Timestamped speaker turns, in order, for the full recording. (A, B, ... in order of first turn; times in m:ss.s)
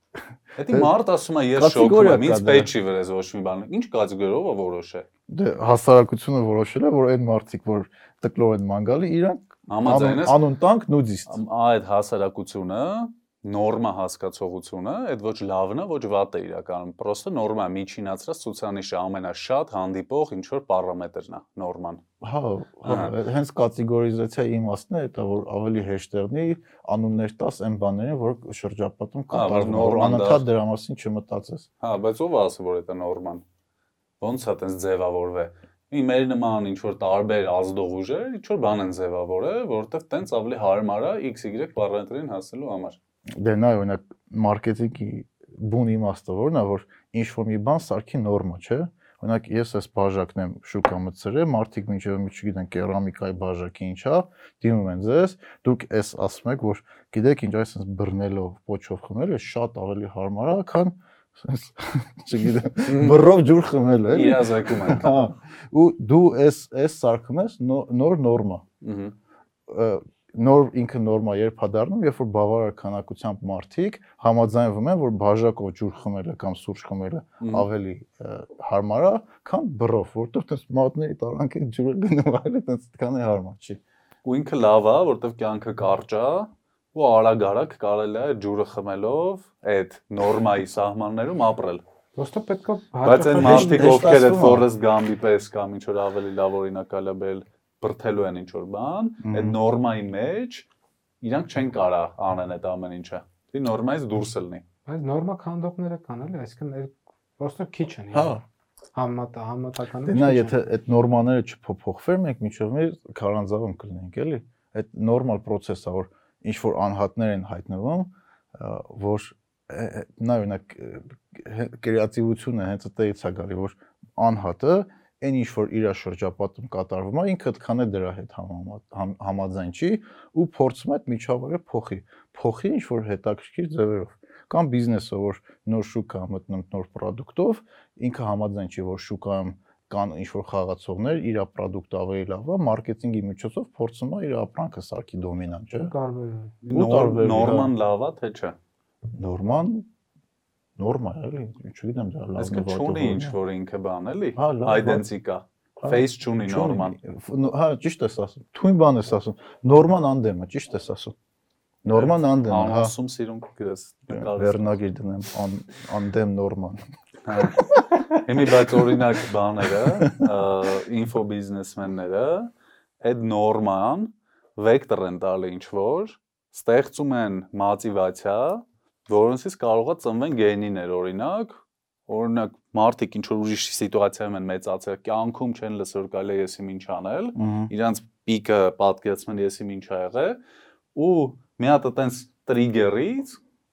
0:00.6-0:05.0 A
0:00.7-0:00.9 B
0:01.5-0:02.7 B
0:05.3-0:11.4 B
0:09.7-0:10.4 A
0:11.3-0:22.0 A
0:22.2-0:31.7 B
0:22.8-0:23.1 A
0:29.3-0:30.4 A
0:31.8-0:33.4 A
0:34.2-0:43.0 A
0:43.4-1:08.6 B
1:02.8-1:03.3 A
1:04.1-1:05.2 A
1:08.8-1:09.2 A
1:09.7-1:23.8 B
1:17.4-1:17.7 A
1:24.2-1:31.8 A
1:32.2-1:34.1 C
1:33.0-1:40.7 A
1:33.4-1:34.6 B
1:39.2-1:39.6 B
1:41.2-1:44.6 A
1:44.9-1:48.4 C
1:48.1-1:48.4 B
1:48.9-1:50.5 C
1:50.0-2:25.9 B
2:25.8-2:26.6 C
2:26.6-2:27.7 B
2:26.7-2:28.6 A
2:29.1-2:29.9 B
2:30.8-2:33.4 B
2:32.4-2:37.0 A
2:34.3-2:35.1 B
2:35.8-2:41.1 B
2:41.8-2:42.9 B
2:41.9-2:44.8 A
2:44.1-2:46.8 B
2:47.2-3:10.4 A
2:47.4-2:48.9 B
2:49.8-2:50.3 B
3:07.4-3:07.7 B
3:10.9-3:13.4 A